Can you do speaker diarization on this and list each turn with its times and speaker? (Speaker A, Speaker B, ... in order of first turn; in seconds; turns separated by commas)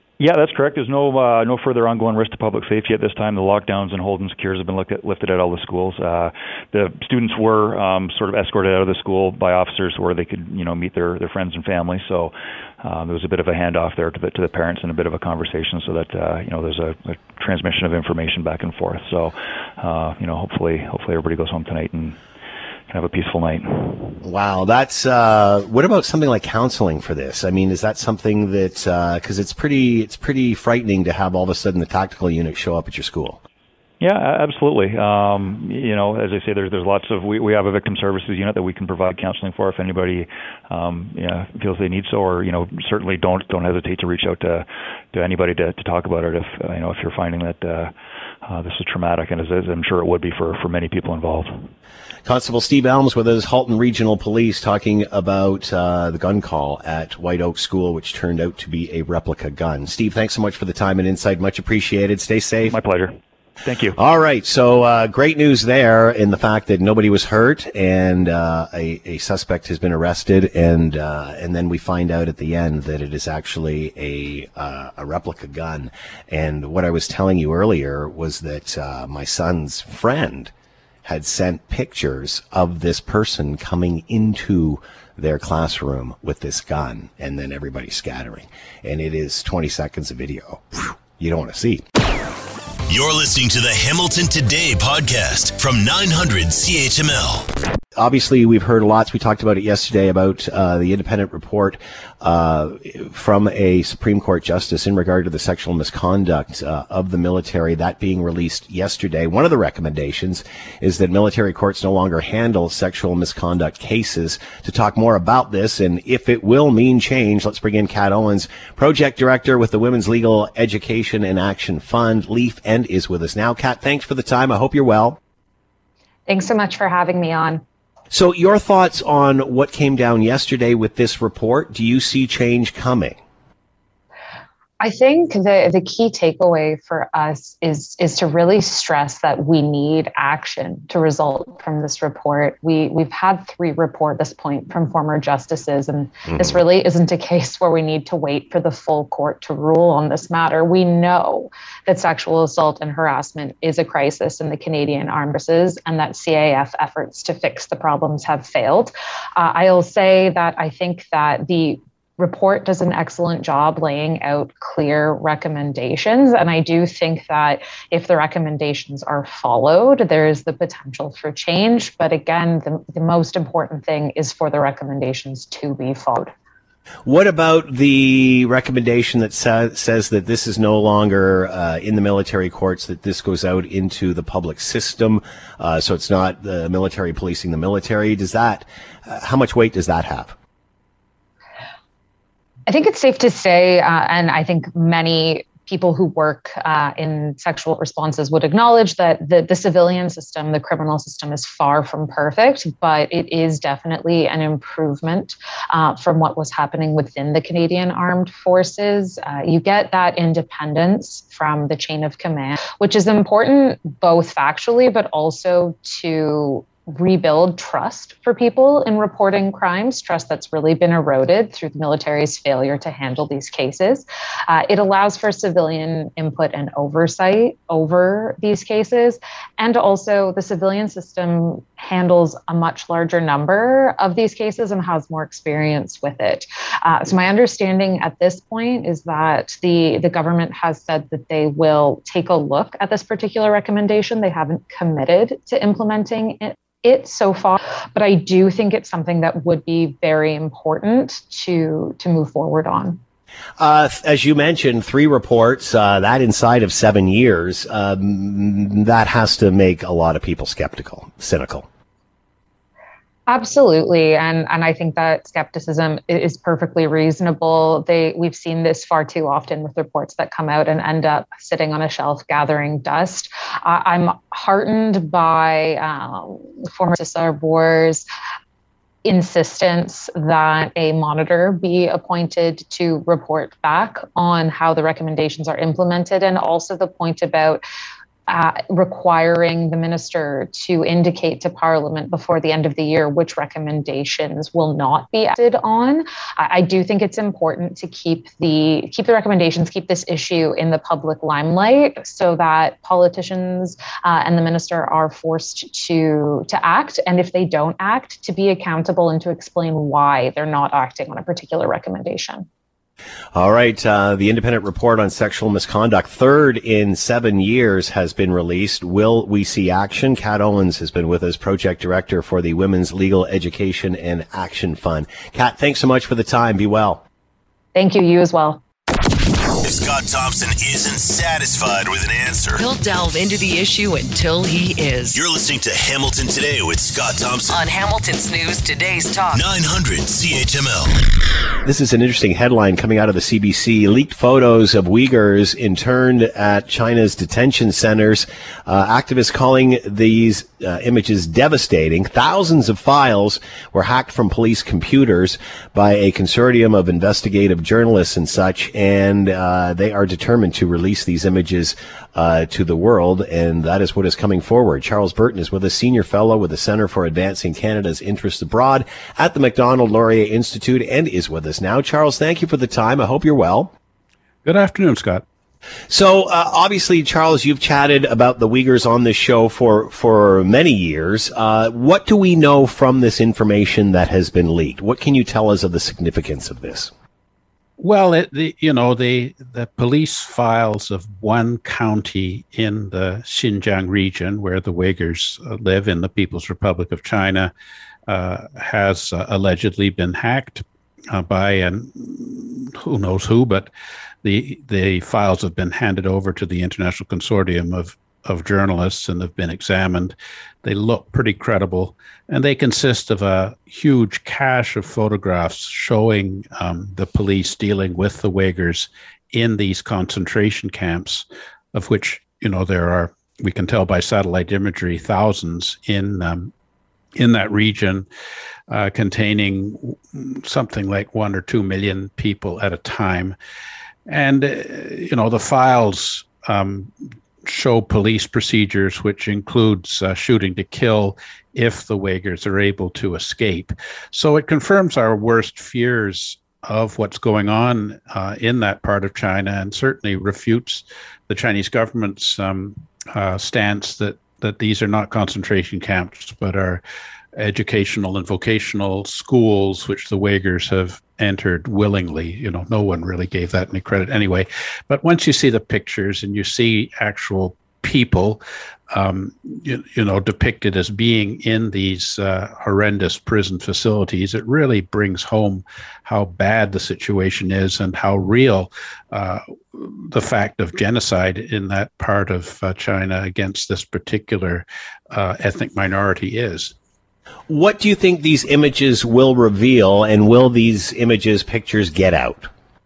Speaker A: 0.2-22.2, Speaker A: 22.9-24.2, Speaker B: 24.2-33.4, Speaker A: 34.0-47.9, Speaker A: 48.5-51.7, Speaker B: 52.2-62.8, Speaker A: 62.7-64.0, Speaker B: 64.0-80.5, Speaker B: 81.0-91.8, Speaker C: 92.9-97.5, Speaker B: 98.0-125.2, Speaker D: 126.3-127.6, Speaker B: 128.1-133.2, Speaker D: 134.8-176.3, Speaker B: 146.3-146.6, Speaker B: 177.1-190.3, Speaker D: 192.7-253.0, Speaker B: 253.6-261.7, Speaker D: 263.3-278.1, Speaker D: 279.0-287.6, Speaker D: 288.3-312.5, Speaker B: 313.4-327.0, Speaker D: 327.8-328.6, Speaker C: 329.6-332.6, Speaker E: 332.6-335.2, Speaker C: 335.1-337.6, Speaker E: 337.5-339.5, Speaker C: 339.3-341.0, Speaker B: 341.6-373.7, Speaker F: 374.4-375.2, Speaker B: 375.9-386.9, Speaker F: 387.8-397.5, Speaker F: 398.1-403.7, Speaker F: 404.2-426.5, Speaker F: 427.2-428.1, Speaker F: 428.7-433.4, Speaker F: 434.1-456.8, Speaker F: 457.4-486.7, Speaker B: 487.5-492.5